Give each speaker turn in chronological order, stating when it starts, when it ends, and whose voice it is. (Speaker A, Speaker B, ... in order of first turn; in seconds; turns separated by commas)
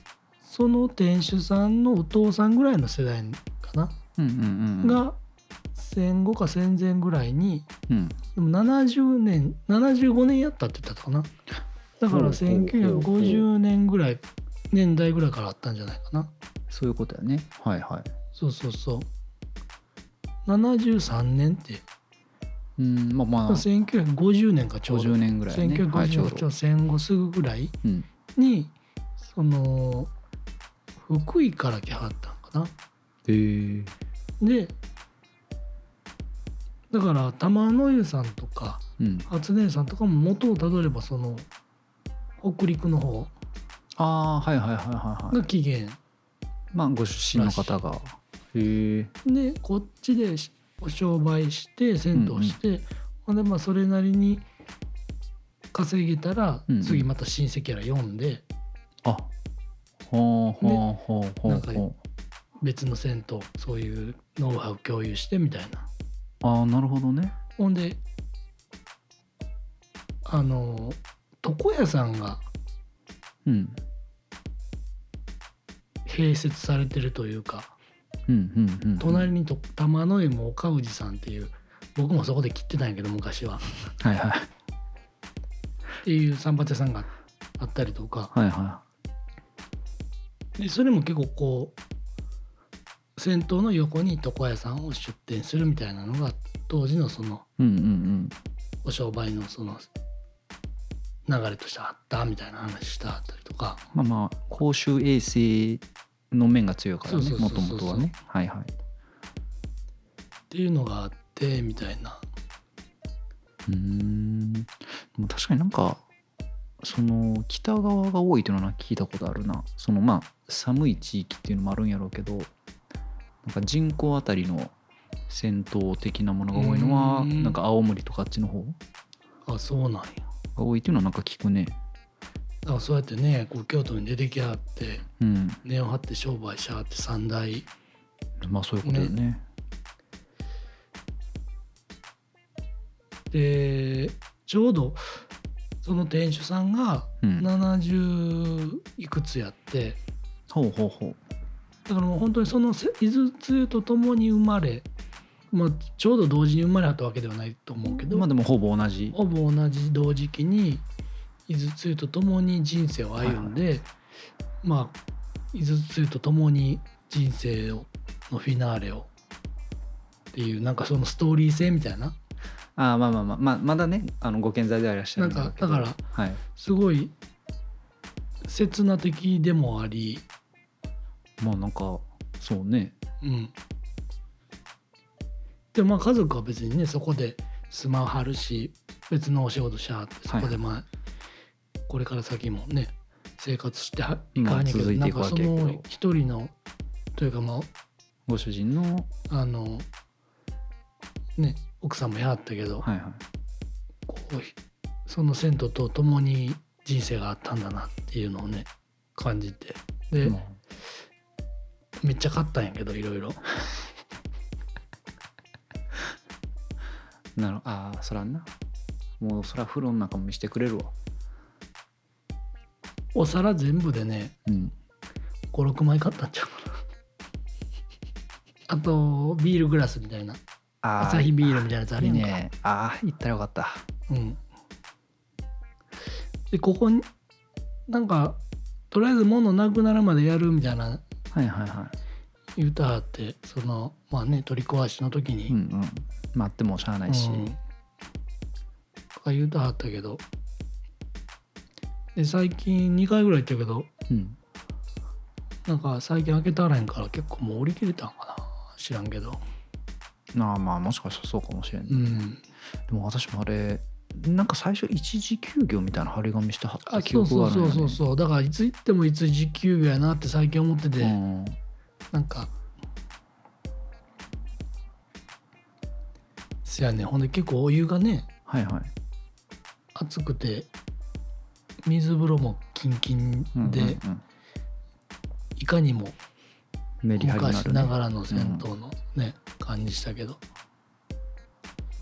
Speaker A: 0.4-4.0, Speaker B: 4.2-5.0, Speaker A: 4.8-5.2, Speaker A: 5.7-7.7, Speaker B: 7.9-8.2, Speaker A: 8.3-11.3, Speaker A: 12.0-16.3, Speaker B: 12.1-13.5, Speaker B: 16.7-18.1, Speaker A: 18.3-19.1, Speaker A: 20.4-21.8, Speaker B: 22.8-23.7, Speaker A: 23.5-27.8, Speaker B: 24.9-26.5, Speaker A: 28.4-28.7, Speaker A: 29.3-30.1, Speaker A: 31.0-32.7, Speaker B: 33.2-33.9, Speaker A: 34.4-34.7, Speaker A: 36.9-41.5, Speaker B: 39.0-39.3, Speaker A: 42.4-43.3, Speaker B: 44.0-45.4, Speaker A: 45.3-46.0, Speaker B: 46.7-49.1, Speaker A: 47.3-47.8, Speaker A: 49.2-54.4, Speaker B: 52.1-52.6, Speaker A: 55.7-58.4, Speaker B: 56.7-57.0, Speaker B: 59.0-59.3, Speaker B: 60.1-62.0, Speaker A: 61.5-61.9, Speaker A: 62.6-65.9, Speaker B: 66.4-67.3, Speaker A: 67.6-68.0, Speaker A: 70.2-72.5, Speaker B: 73.4-73.8, Speaker A: 76.0-77.7, Speaker B: 78.3-79.3, Speaker A: 79.0-83.6, Speaker B: 84.0-84.5, Speaker A: 86.0-88.3, Speaker B: 88.3-88.8, Speaker A: 90.6-91.8, Speaker A: 93.2-97.4, Speaker B: 97.6-98.3, Speaker A: 98.8-99.9, Speaker A: 101.2-103.8, Speaker B: 103.9-108.7, Speaker A: 107.0-108.1, Speaker A: 110.5-112.2, Speaker B: 113.7-116.0, Speaker B: 116.8-122.5, Speaker B: 123.4-124.7, Speaker B: 125.3-128.8, Speaker A: 126.5-127.6, Speaker A: 129.4-130.2, Speaker B: 130.6-131.8, Speaker A: 132.6-135.0, Speaker B: 135.2-135.6, Speaker A: 135.6-137.7, Speaker B: 138.4-139.4, Speaker A: 138.8-139.1, Speaker A: 143.3-145.2, Speaker A: 145.8-150.0, Speaker B: 147.2-147.5, Speaker B: 150.5-151.2, Speaker A: 151.8-154.9, Speaker A: 155.5-158.3, Speaker B: 158.1-159.2, Speaker A: 159.1-160.8, Speaker A: 161.5-163.9, Speaker B: 163.2-163.5, Speaker A: 164.6-165.0, Speaker A: 165.5-169.1, Speaker A: 170.3-172.2, Speaker B: 172.8-176.4, Speaker A: 175.2-176.0, Speaker A: 176.5-177.1, Speaker A: 178.4-180.2, Speaker B: 181.4-182.9, Speaker A: 183.2-183.5, Speaker A: 185.7-190.9, Speaker B: 190.3-190.6, Speaker A: 191.9-196.5, Speaker B: 194.3-195.8, Speaker A: 197.1-197.7, Speaker B: 198.3-199.1, Speaker A: 199.3-199.9, Speaker A: 201.4-202.8, Speaker B: 202.8-203.2, Speaker A: 204.1-204.5, Speaker A: 205.1-210.4, Speaker B: 210.2-210.6, Speaker A: 212.0-213.8, Speaker B: 217.4-218.5, Speaker B: 219.2-220.9, Speaker A: 223.1-224.3, Speaker B: 224.4-224.7, Speaker A: 225.5-226.8, Speaker A: 228.7-230.4, Speaker B: 230.8-233.8, Speaker A: 231.0-232.4, Speaker A: 234.1-234.4, Speaker A: 236.5-237.1, Speaker A: 237.9-241.0, Speaker B: 241.3-241.9, Speaker A: 242.6-245.6, Speaker B: 245.5-247.5, Speaker A: 247.1-247.6, Speaker A: 249.2-250.2, Speaker A: 252.1-253.9, Speaker B: 254.1-254.4, Speaker A: 255.7-259.4, Speaker B: 260.3-262.2, Speaker A: 261.9-262.4, Speaker B: 262.9-268.0, Speaker A: 266.9-271.2, Speaker B: 271.0-271.6, Speaker A: 272.1-272.5, Speaker A: 276.6-278.3, Speaker B: 278.5-278.9, Speaker A: 279.9-280.7, Speaker A: 281.8-284.0, Speaker B: 283.6-284.2, Speaker A: 285.6-286.2, Speaker B: 287.0-288.7, Speaker A: 287.2-290.4